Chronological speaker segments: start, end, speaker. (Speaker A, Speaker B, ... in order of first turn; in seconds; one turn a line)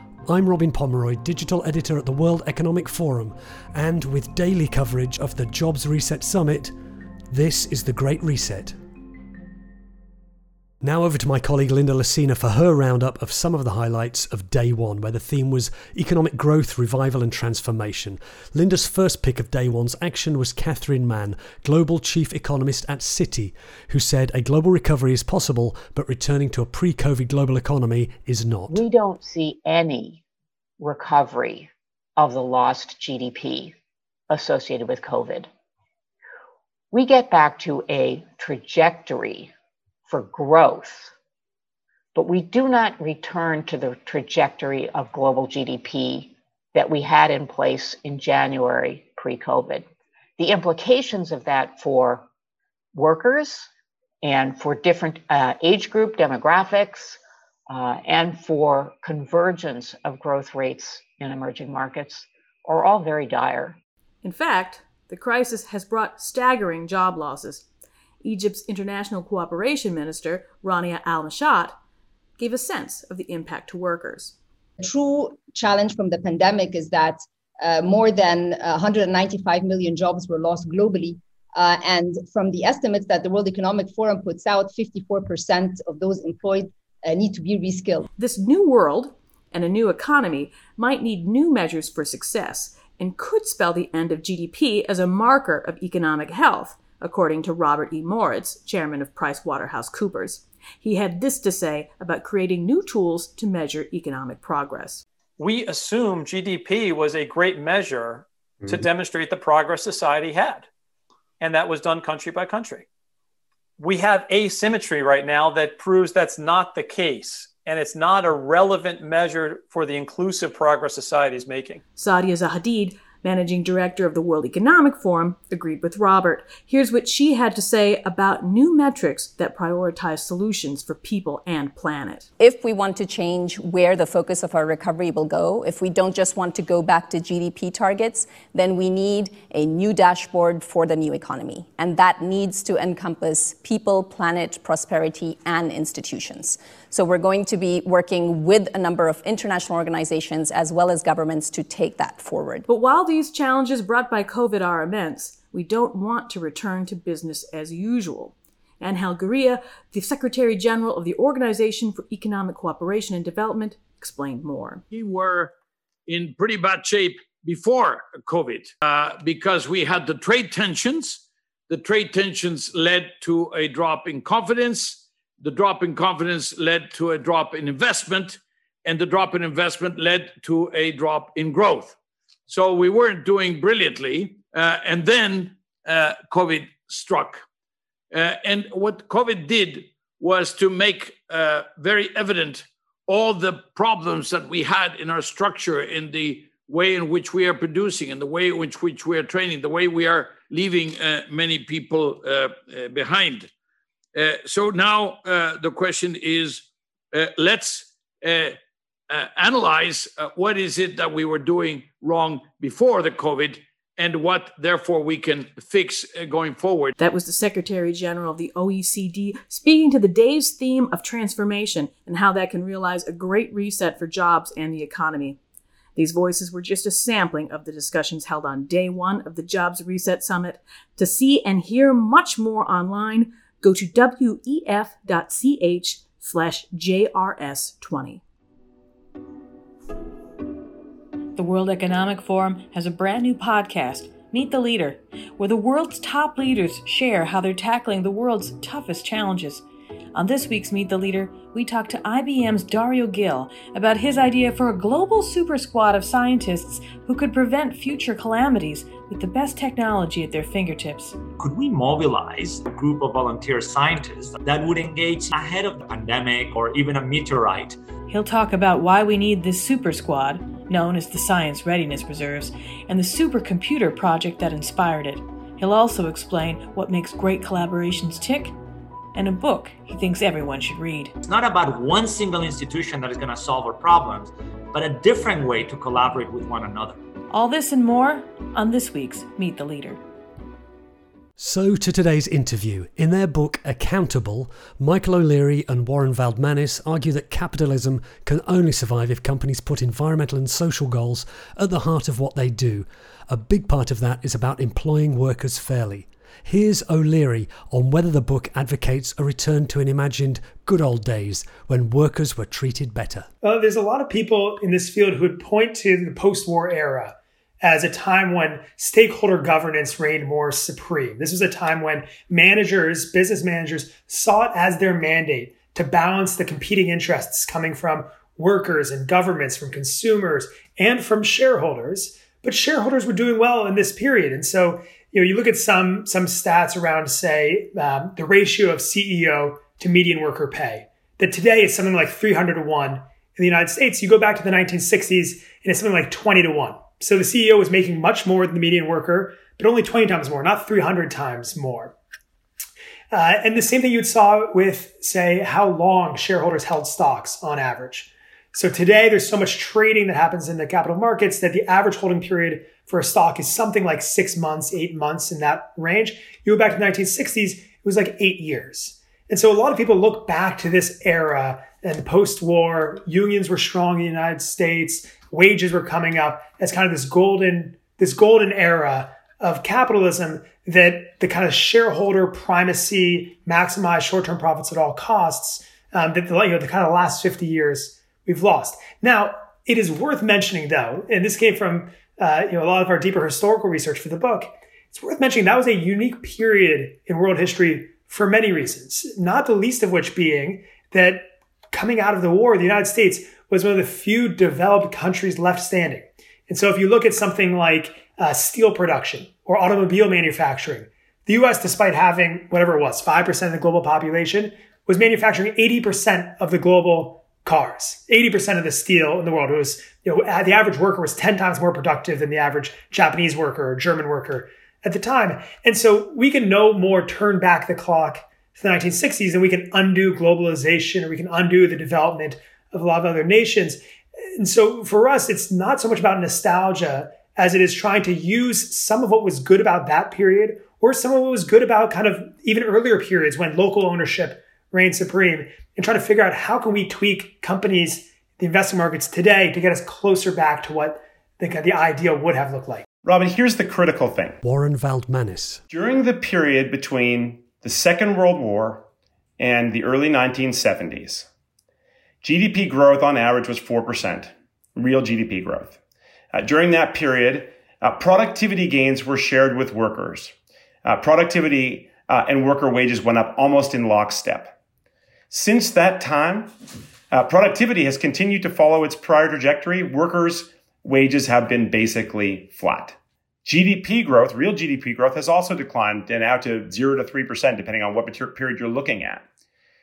Speaker A: 0.3-6.7
Speaker A: 7.3-8.8
Speaker A: 10.8-28.8
Speaker B: 28.7-30.2
Speaker B: 30.8-33.7
Speaker B: 34.3-35.5
Speaker B: 36.9-39.5
Speaker B: 40.1-41.1
Speaker B: 42.1-49.9
Speaker B: 50.4-52.3
Speaker B: 53.0-53.7
Speaker B: 54.2-63.8
Speaker C: 64.2-67.7
Speaker C: 68.2-71.8
Speaker C: 72.4-74.4
Speaker D: 74.8-88.1
Speaker C: 88.2-105.0
Speaker E: 105.4-110.7
Speaker E: 111.4-112.9
Speaker E: 113.8-121.8
Speaker C: 122.0-132.3
Speaker F: 132.4-152.7
Speaker C: 152.7-164.8
Speaker G: 164.9-165.5
Speaker G: 166.1-182.0
Speaker G: 182.5-187.4
Speaker G: 188.1-203.5
Speaker G: 204.1-208.6
Speaker G: 209.1-216.9
Speaker C: 217.0-225.4
Speaker C: 225.9-238.2
Speaker C: 241.4-261.2
Speaker H: 261.4-267.8
Speaker C: 268.1-278.6
Speaker C: 279.1-281.1
Speaker H: 281.2-287.0
Speaker C: 287.3-290.0
Speaker A: 291.4-313.3
Speaker I: 313.4-351.9
Speaker I: 353.1-433.8
Speaker I: 434.4-452.9
Speaker J: 453.0-454.4
Speaker A: 454.4-455.6
Speaker J: 455.7-458.9
Speaker J: 459.4-461.3
Speaker J: 462.2-465.8
Speaker J: 466.3-470.3
Speaker J: 470.9-474.5
Speaker J: 475.3-476.5
Speaker J: 477.1-489.2